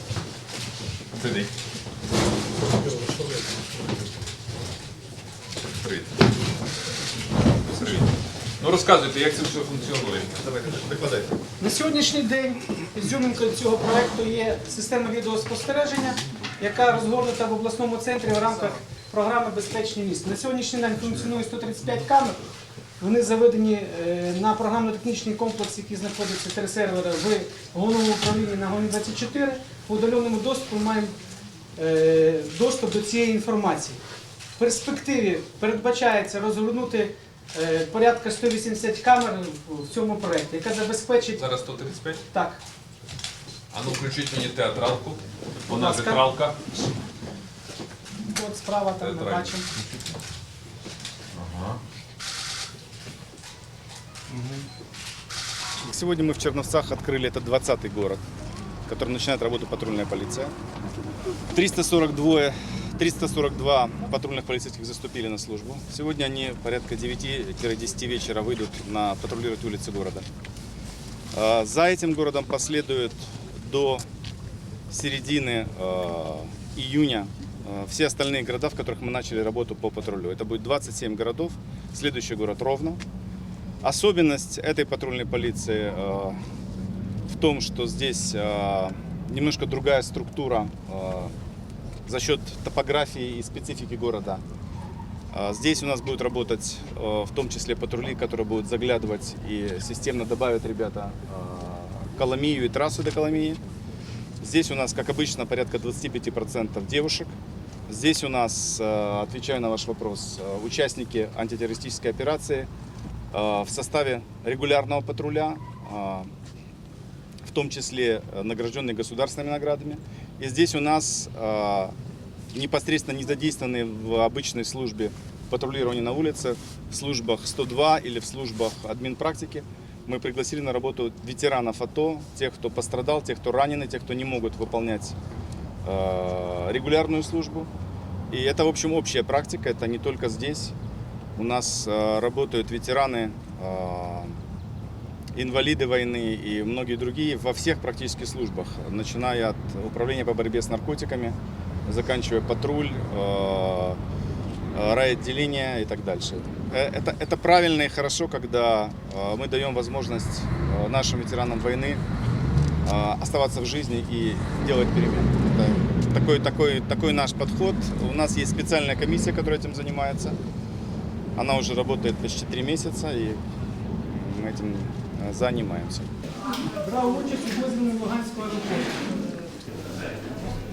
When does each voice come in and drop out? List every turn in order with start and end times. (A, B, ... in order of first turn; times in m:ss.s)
0:01.2-0:01.5 A
0:05.8-0:06.1 A
0:07.7-0:08.1 A
0:08.6-0:11.2 A
0:11.6-0:22.4 B
0:23.0-0:31.2 B
0:31.8-0:34.0 B
0:34.6-0:41.4 B
0:41.4-0:42.2 A
0:42.3-0:42.6 B
0:43.7-0:46.6 A
0:45.7-0:46.3 B
0:48.2-0:49.6 B
0:49.0-0:49.8 A
0:51.3-0:51.8 A
0:55.8-0:58.2 C
0:58.9-1:00.5 C
1:01.5-1:10.2 C
1:11.3-1:14.0 C
1:14.9-1:23.0 C
1:23.8-1:26.4 C
1:27.2-1:31.3 C
1:32.0-1:34.4 C
1:35.3-1:43.6 C
1:44.4-1:47.3 C
1:47.9-1:52.7 C
1:53.3-1:56.3 C
1:57.4-2:01.9 C
2:02.5-2:15.2 C
2:15.8-2:17.7 C
2:18.3-2:20.7 C
2:21.4-2:24.4 C
2:25.3-2:34.0 C
2:34.7-2:42.0 C
2:42.8-2:50.4 C
2:51.4-2:53.4 C
2:54.1-2:56.1 C
2:56.6-2:59.0 B